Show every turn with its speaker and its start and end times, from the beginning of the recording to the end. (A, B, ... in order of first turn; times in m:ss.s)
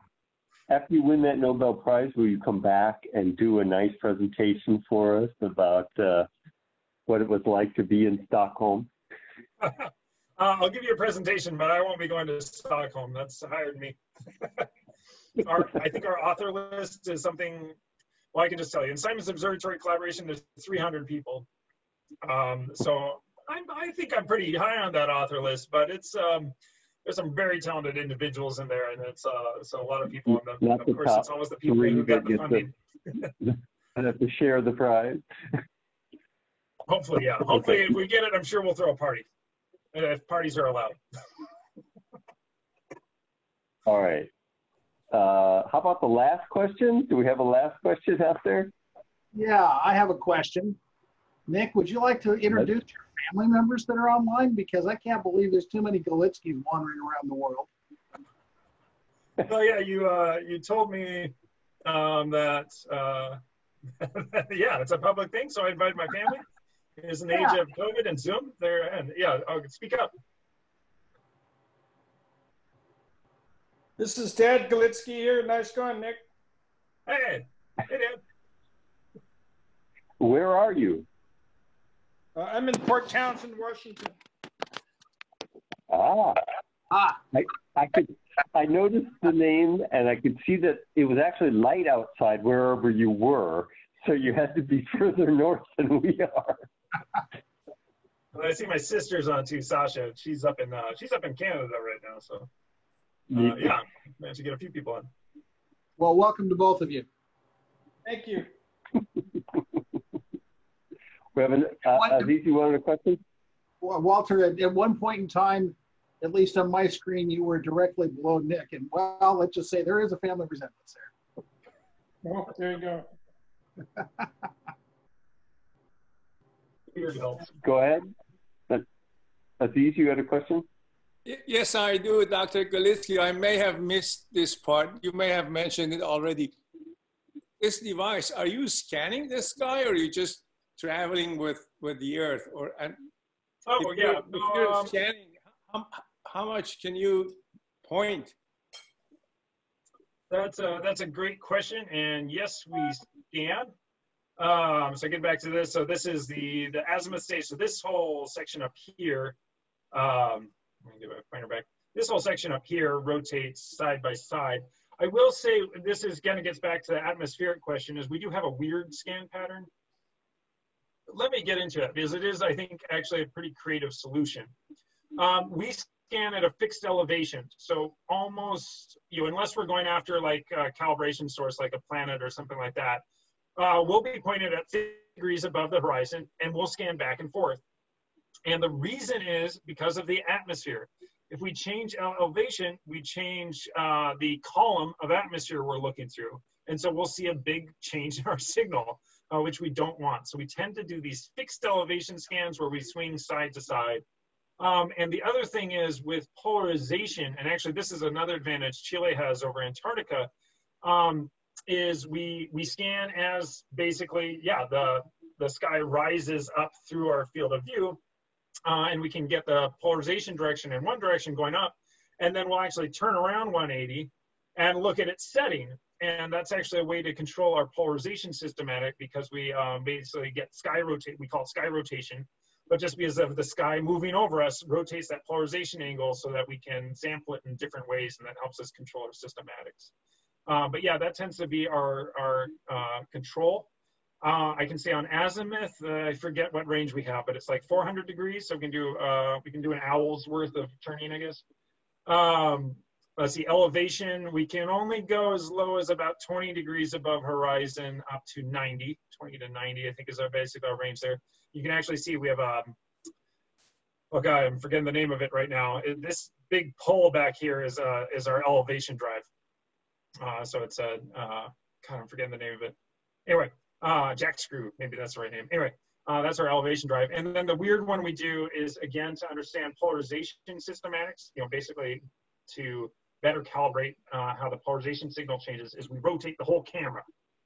0:00.7-0:06.3 A
0:07.1-0:08.9 A
0:09.6-0:14.7 B
0:15.4-0:17.8 B
0:18.3-0:21.5 B
0:22.2-0:33.3 B
0:30.6-0:32.7 A
0:33.4-0:35.2 A
0:36.9-0:39.3 B
0:39.9-0:41.0 B
0:43.9-0:44.3 A
0:45.1-0:48.7 A
0:49.3-0:50.8 C
0:51.5-0:57.7 C
0:59.4-1:03.4 B
1:04.0-1:06.5 B
1:07.0-1:10.1 B
1:14.0-1:16.2 D
1:17.1-1:18.2 B
1:20.2-1:21.1 A
1:22.4-1:24.1 D
1:25.9-1:26.4 A
1:27.3-1:36.7 A
1:38.3-1:42.5 B
1:43.3-1:43.7 A
1:43.3-1:45.1 B
1:46.0-1:47.1 C
1:48.0-1:48.5 D
1:51.4-1:53.2 A
1:53.8-2:01.1 C
2:02.2-2:03.1 D
2:06.9-2:07.5 B
2:07.6-2:08.1 A
2:09.6-2:10.7 A
2:11.2-2:16.6 E
2:17.6-2:23.0 E
2:23.7-2:24.9 B
2:23.8-2:28.4 E
2:30.3-2:33.7 B
2:34.4-2:39.4 B
2:39.9-2:49.7 B
2:51.1-2:54.5 B
2:55.2-3:03.0 B
3:03.6-3:07.6 B
3:08.4-3:24.0 B
3:24.6-3:30.3 B
3:30.8-3:38.0 B
3:38.6-3:59.9 B
4:00.5-4:03.7 B
4:04.2-4:11.4 B
4:12.1-4:22.8 B
4:24.1-4:29.3 B
4:30.2-4:47.1 B